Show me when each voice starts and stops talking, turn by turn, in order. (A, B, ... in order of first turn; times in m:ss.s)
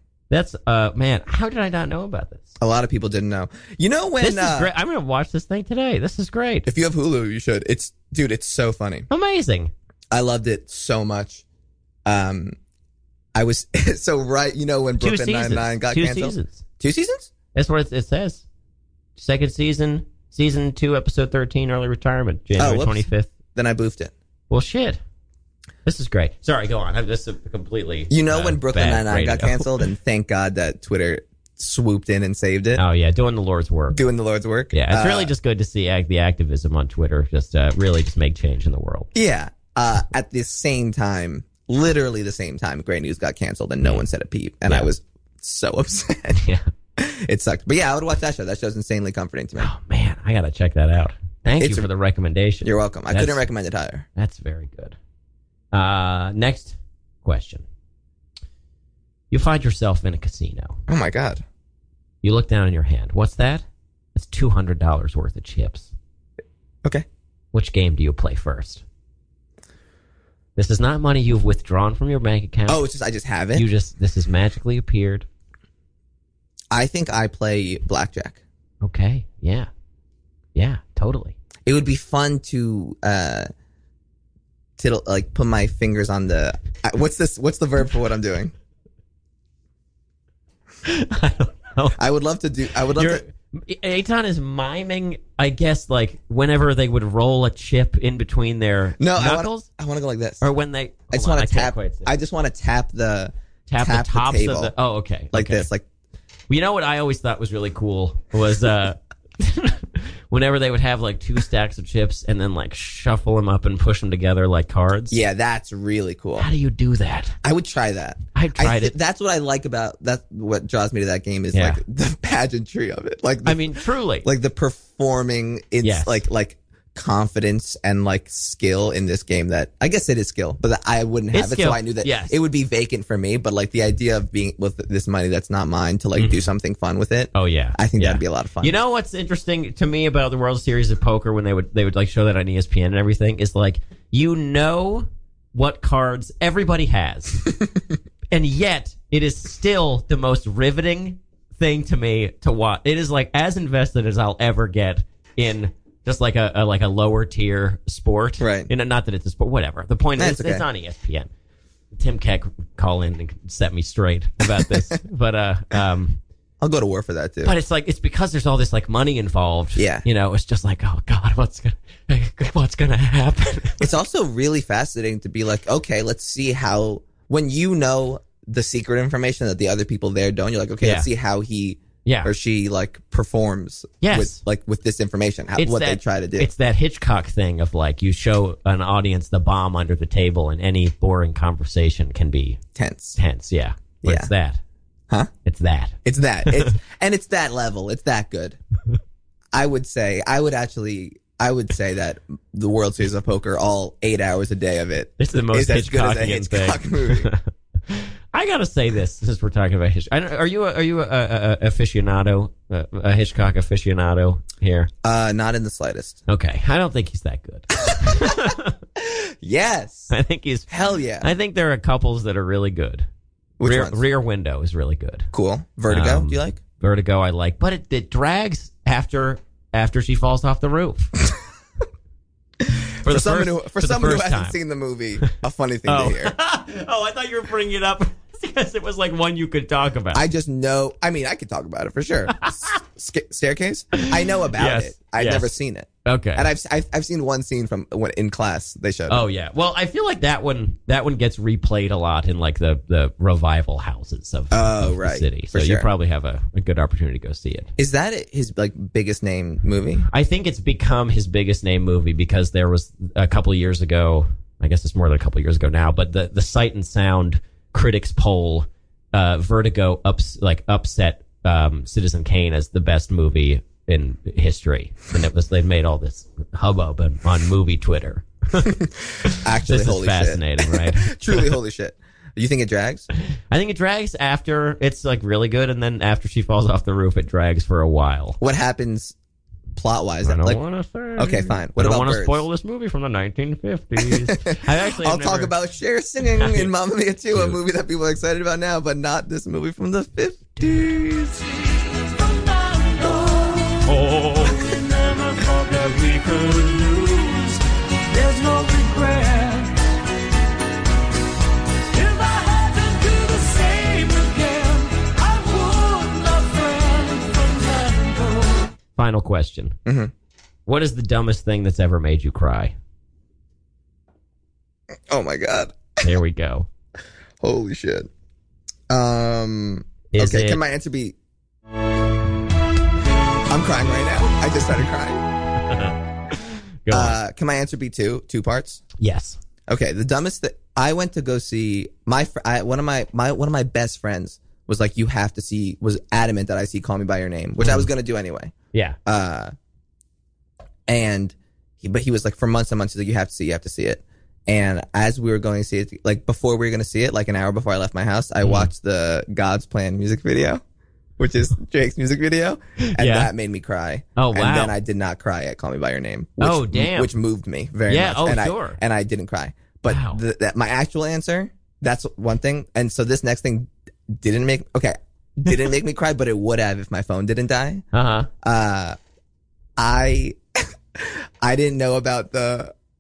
0:00.3-0:02.6 A
0:02.6-0:04.7 B
0:04.2-0:06.7 A
0:06.7-0:09.1 B
0:09.1-0:09.7 A
0:10.1-0:11.4 B
0:12.1-0:12.6 B
0:13.4-0:17.3 B
0:15.0-0:16.6 A
0:17.6-0:18.4 A
0:19.2-0:23.3 A
0:22.6-0:24.1 B
0:24.5-0:25.0 A
0:25.8-0:29.7 A
0:28.1-0:32.8 B
0:32.8-0:34.0 A
0:33.9-0:35.3 B
0:34.7-0:39.1 A
0:39.2-0:46.4 B
0:46.4-0:46.7 A
0:47.0-0:49.7 B
0:49.6-0:53.5 A
0:51.6-0:51.9 B
0:52.6-0:54.0 B
0:54.2-0:55.0 A
0:55.7-0:57.6 A
0:59.3-1:00.8 A
1:00.9-1:01.4 B
1:02.2-1:05.9 A
1:07.5-1:08.8 A
1:10.6-1:12.8 A
1:12.7-1:13.7 B
1:13.6-1:15.3 A
1:16.7-1:18.4 B
1:18.8-1:19.7 A
1:20.6-1:21.4 A
1:21.7-1:23.5 B
1:24.8-1:28.5 B
1:30.8-1:32.0 A
1:32.0-1:33.2 B
1:33.0-1:39.7 A
1:39.0-1:40.4 B
1:40.4-1:42.1 A
1:41.1-1:44.8 B
1:43.7-1:45.7 A
1:45.3-1:45.8 B
1:46.5-1:55.2 A
1:55.1-1:56.5 B
1:56.4-1:57.4 A
1:57.4-2:18.8 B
1:58.4-1:59.0 A
2:01.5-2:01.8 A
2:03.4-2:04.3 A
2:05.8-2:06.2 A
2:11.3-2:12.4 A
2:16.2-2:16.5 A
2:17.3-2:27.5 A
2:28.3-2:41.3 A
2:38.4-2:38.7 B
2:40.2-2:40.6 B
2:41.9-2:46.2 A
2:46.6-2:47.5 B
2:47.4-2:53.9 A
2:49.8-2:50.0 B
2:53.8-3:06.5 B
3:00.8-3:01.1 A
3:02.1-3:02.3 A
3:04.0-3:04.4 A
3:05.6-3:12.6 A
3:12.8-3:13.2 B
3:13.2-3:14.6 A
3:14.0-3:14.3 B
3:15.4-3:16.0 A
3:16.0-3:18.6 B
3:19.5-3:27.3 B
3:25.2-3:34.9 A
3:35.0-3:36.2 B
3:36.3-3:38.8 A
3:37.9-3:38.2 B
3:39.0-3:40.1 B
3:40.1-3:40.7 A
3:40.7-3:41.3 B
3:41.2-3:43.1 A
3:43.6-3:44.0 B
3:43.6-3:45.3 A
3:45.3-3:46.6 B
3:45.9-3:51.1 A
3:52.7-3:56.3 B
3:53.0-3:54.6 A
3:55.9-4:00.2 A
4:00.1-4:09.3 B
4:02.4-4:02.7 A
4:04.0-4:05.5 A
4:06.0-4:06.5 A
4:09.1-4:17.7 A
4:14.5-4:15.9 B
4:17.8-4:20.1 B
4:20.1-4:38.7 A
4:38.6-4:43.1 B
4:39.2-4:41.5 A
4:43.5-4:48.4 A
4:48.4-4:49.2 B
4:49.8-4:50.6 B
4:50.2-4:55.5 A
4:51.2-4:52.4 B
4:54.0-5:01.4 B
4:56.4-4:56.7 A
4:57.3-4:57.6 A
5:02.1-5:07.6 C
5:08.1-5:09.7 C
5:11.9-5:18.7 C
5:19.0-5:19.8 A
5:19.9-5:20.1 B
5:20.7-5:22.8 A
5:25.1-5:26.1 B
5:26.0-5:26.7 A
5:27.4-5:28.1 B
5:28.9-5:31.2 B
5:30.1-5:30.6 A
5:33.5-5:35.3 B
5:35.7-5:37.2 A
5:36.9-5:38.8 B
5:39.0-5:39.4 A
5:39.7-5:48.5 B
5:47.6-5:47.9 A
5:48.7-5:49.0 A
5:49.1-5:49.5 B
5:50.9-6:00.6 B
5:58.4-5:58.7 A
6:01.2-6:17.8 B
6:02.8-6:03.3 A
6:04.2-6:04.8 A
6:06.4-6:07.1 A
6:07.9-6:08.8 A
6:09.8-6:10.2 A
6:17.9-6:18.3 A
6:18.4-6:19.0 B
6:19.8-6:22.7 B